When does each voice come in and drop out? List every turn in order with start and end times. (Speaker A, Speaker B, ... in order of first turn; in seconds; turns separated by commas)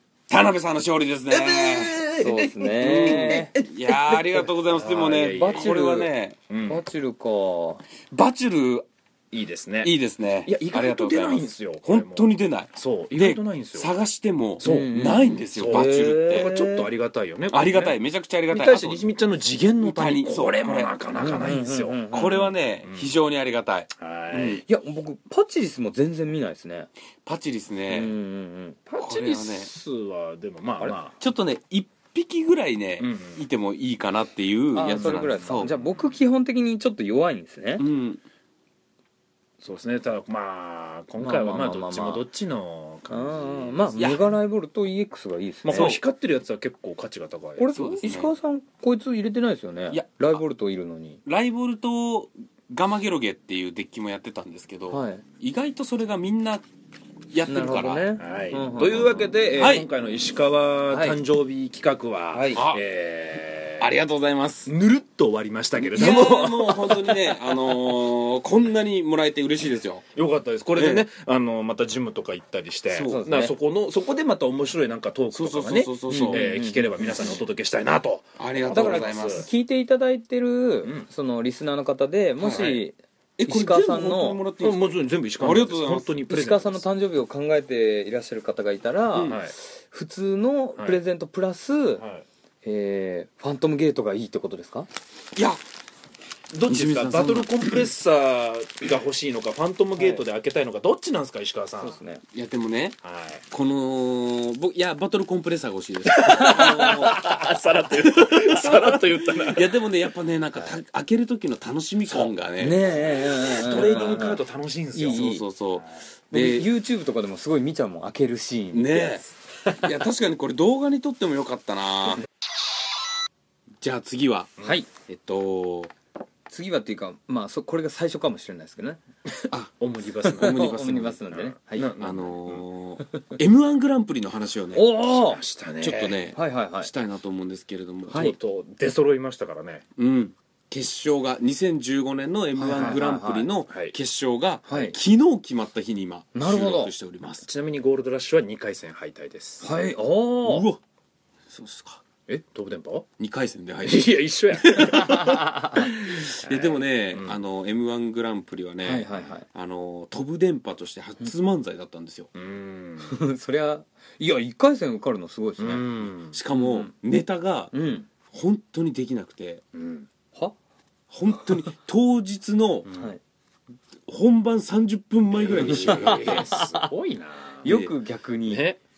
Speaker A: 0.3-2.0, Speaker B: 1.3-5.8, Speaker C: 2.1-3.5, Speaker A: 2.8-6.4, Speaker C: 5.3-6.1, Speaker B: 6.5-6.8, Speaker C: 6.7-7.8, Speaker A: 8.1-8.8, Speaker B: 9.3-9.9, Speaker A: 9.8-16.5, Speaker B: 10.4-13.9, Speaker B: 14.6-18.0, Speaker C: 14.6-16.9, Speaker A: 17.5-19.1, Speaker B: 18.5-22.1, Speaker A: 19.8-21.0, Speaker C: 21.1-22.5, Speaker A: 22.1-24.6, Speaker B: 22.8-23.1, Speaker B: 24.0-24.6, Speaker C: 24.6-26.9, Speaker A: 27.2-28.1, Speaker C: 27.9-28.8, Speaker B: 28.9-31.2, Speaker A: 29.0-29.7, Speaker A: 30.8-35.7, Speaker B: 33.0-33.5, Speaker C: 34.7-37.8, Speaker B: 34.9-35.8, Speaker A: 37.8-38.2, Speaker B: 39.6-44.2, Speaker C: 41.2-42.2, Speaker C: 43.1-46.0, Speaker A: 44.0-44.3, Speaker B: 45.6-48.0, Speaker A: 45.7-46.0, Speaker C: 47.6-51.2, Speaker A: 47.7-48.3, Speaker A: 49.9-50.4, Speaker A: 51.2-56.6, Speaker C: 54.9-55.2, Speaker A: 57.3-58.1, Speaker C: 57.5-59.2, Speaker B: 58.2-63.9, Speaker A: 59.6-59.9, Speaker C: 60.9-61.2, Speaker C: 62.3-62.6, Speaker A: 62.5-62.8, Speaker A: 63.8-64.7, Speaker B: 64.7-67.9, Speaker A: 65.8-70.0, Speaker B: 70.1-79.5, Speaker A: 70.8-71.0, Speaker A: 72.9-73.3, Speaker C: 73.1-73.5, Speaker A: 75.3-76.5, Speaker C: 76.1-77.2, Speaker A: 78.4-79.5, Speaker C: 78.7-84.4, Speaker A: 82.4-82.8, Speaker B: 82.5-82.8, Speaker A: 83.4-86.1, Speaker B: 84.6-86.8, Speaker C: 86.3-92.0, Speaker A: 89.1-89.4, Speaker B: 89.2-89.5, Speaker B: 90.8-91.0, Speaker B: 92.0-92.2, Speaker C: 92.6-94.9, Speaker A: 95.3-95.6, Speaker B: 96.5-102.0, Speaker A: 96.7-97.8, Speaker C: 101.8-102.2, Speaker A: 102.3-103.0, Speaker B: 103.0-103.4, Speaker A: 103.5-107.4, Speaker B: 106.0-109.8, Speaker C: 106.4-106.9, Speaker A: 107.9-112.9, Speaker C: 112.6-114.4, Speaker B: 113.0-115.5, Speaker A: 113.6-114.2, Speaker C: 114.9-115.4, Speaker A: 115.1-116.7, Speaker C: 116.3-119.2, Speaker A: 118.7-122.2, Speaker A: 123.8-125.9, Speaker C: 124.6-124.9, Speaker C: 126.5-129.0, Speaker B: 129.8-130.8, Speaker C: 130.2-131.9, Speaker A: 130.3-131.3, Speaker B: 131.3-132.7, Speaker A: 132.0-134.8, Speaker C: 134.7-135.4, Speaker B: 135.0-136.2, Speaker A: 135.8-138.3, Speaker C: 136.3-136.9, Speaker C: 138.1-138.3, Speaker B: 138.1-139.8, Speaker A: 140.0-147.4, Speaker C: 142.6-143.5, Speaker B: 142.7-143.0, Speaker B: 143.7-143.9, Speaker C: 144.7-145.0, Speaker C: 146.3-146.9, Speaker B: 147.4-149.7, Speaker C: 149.6-150.7, Speaker A: 150.4-150.8, Speaker A: 151.5-152.0, Speaker B: 152.3-153.1, Speaker A: 153.2-154.2, Speaker B: 153.8-157.4, Speaker A: 154.7-155.0, Speaker C: 155.0-155.7, Speaker A: 155.9-162.3, Speaker C: 158.8-159.4, Speaker B: 162.3-163.2, Speaker C: 163.0-165.9, Speaker B: 165.6-166.8, Speaker A: 166.3-167.7, Speaker C: 166.6-166.8, Speaker C: 167.7-168.1, Speaker A: 168.3-169.6, Speaker B: 169.7-170.1, Speaker A: 171.1-172.9, Speaker B: 172.8-173.1, Speaker C: 172.9-173.2, Speaker A: 174.1-176.5, Speaker B: 175.3-177.8, Speaker C: 175.6-176.9, Speaker C: 177.6-178.7, Speaker A: 177.6-177.9, Speaker B: 178.5-178.8